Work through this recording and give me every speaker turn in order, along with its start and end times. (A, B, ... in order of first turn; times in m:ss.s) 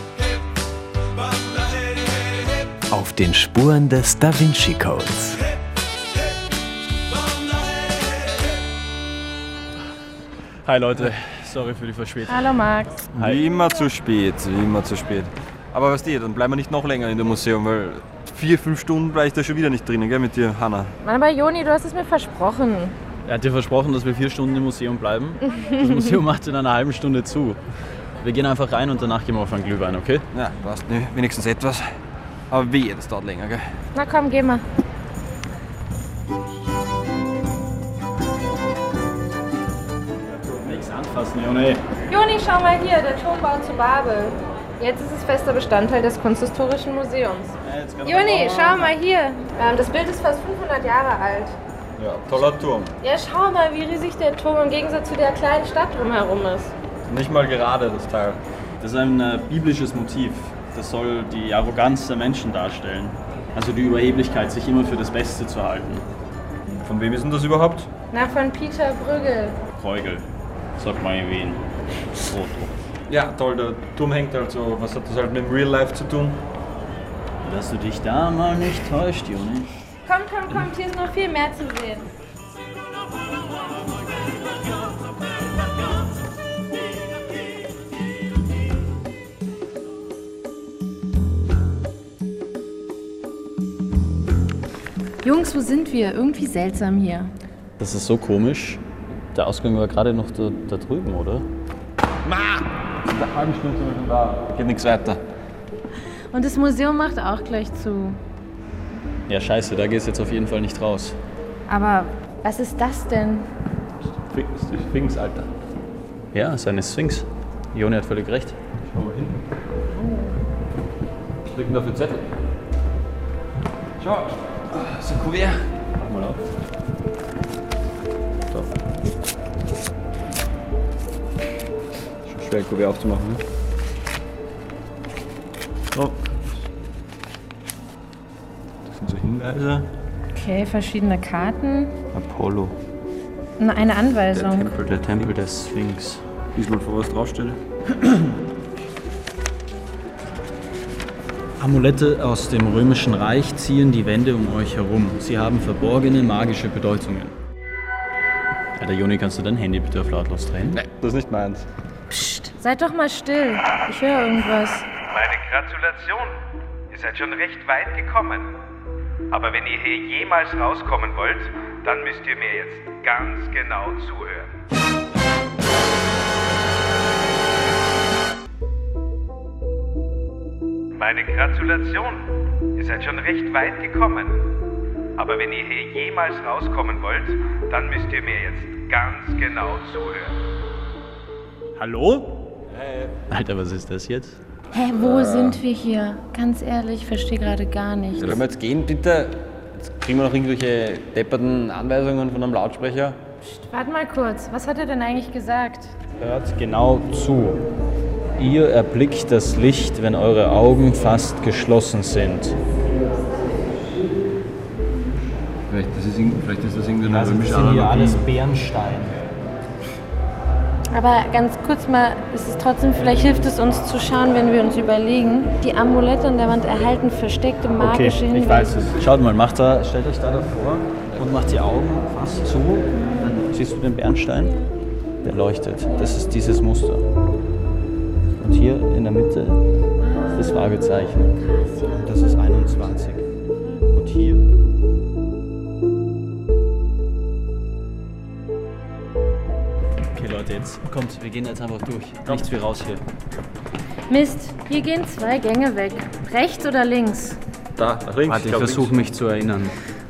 0:02.9-0:05.4 A
0:10.6-0:12.5 B
0:12.3-0:13.0 C
0:13.1-0:20.9 D
0:13.1-0:13.4 B
0:21.0-0:22.9 C
0:23.2-0:27.6 B
0:28.2-0:30.2 B
0:30.3-0:31.8 D
0:32.5-0:33.6 D
0:33.9-0:34.6 C
0:40.4-0:41.8 B
0:42.1-0:51.6 C
0:47.6-0:48.9 B
0:52.0-0:52.9 D
0:53.0-0:56.7 C
0:57.0-0:58.4 D
0:58.8-1:06.0 B
1:06.8-1:07.9 D
1:08.1-1:09.6 C
1:09.7-1:10.2 B
1:10.8-1:11.6 B
1:12.2-1:12.7 B
1:13.1-1:16.4 D
1:17.4-1:19.7 B
1:20.0-1:22.1 C
1:35.2-1:37.3 C
1:37.8-1:38.8 B
1:39.3-1:41.4 B
1:42.2-1:45.2 D
1:46.3-1:48.2 C
1:49.3-1:51.2 B
1:51.7-1:53.5 C
1:54.3-1:55.5 D
1:56.3-1:58.6 B
1:58.9-1:59.4 D
2:00.0-2:00.4 C
2:01.5-2:02.3 D
2:04.0-2:05.7 D
2:06.0-2:06.4 B
2:12.2-2:13.4 D
2:15.9-2:16.3 D
2:18.9-2:19.9 D
2:20.3-2:22.0 C
2:22.1-2:22.7 B
2:23.6-2:24.7 C
2:24.6-2:25.3 D
2:24.7-2:26.2 B
2:26.5-2:27.6 D
2:28.0-2:28.3 B
2:31.6-2:37.3 B
2:38.8-2:40.8 B
2:40.7-2:41.7 D
2:42.1-2:44.8 C
2:45.1-2:46.4 E
2:46.9-2:48.5 E
2:49.3-2:54.5 E
3:01.0-3:04.4 E
3:05.2-3:10.3 E
3:11.8-3:12.3 B
3:12.8-3:13.1 D
3:13.3-3:14.4 B
3:14.7-3:18.4 C
3:15.0-3:15.5 D
3:18.2-3:23.2 D
3:23.4-3:25.9 C
3:26.2-3:27.6 B
3:28.4-3:32.6 B
3:35.7-3:38.2 D
3:37.0-3:39.1 B
3:40.9-3:48.8 C
3:47.8-3:54.6 B
3:53.0-3:53.4 C
3:55.2-3:57.0 B
3:58.4-3:59.6 B
4:00.3-4:00.6 C
4:00.3-4:01.3 B
4:01.6-4:02.3 C
4:01.9-4:03.2 B
4:03.9-4:04.4 B
4:10.1-4:13.0 B
4:14.1-4:17.4 C
4:17.8-4:18.9 D
4:18.2-4:19.8 B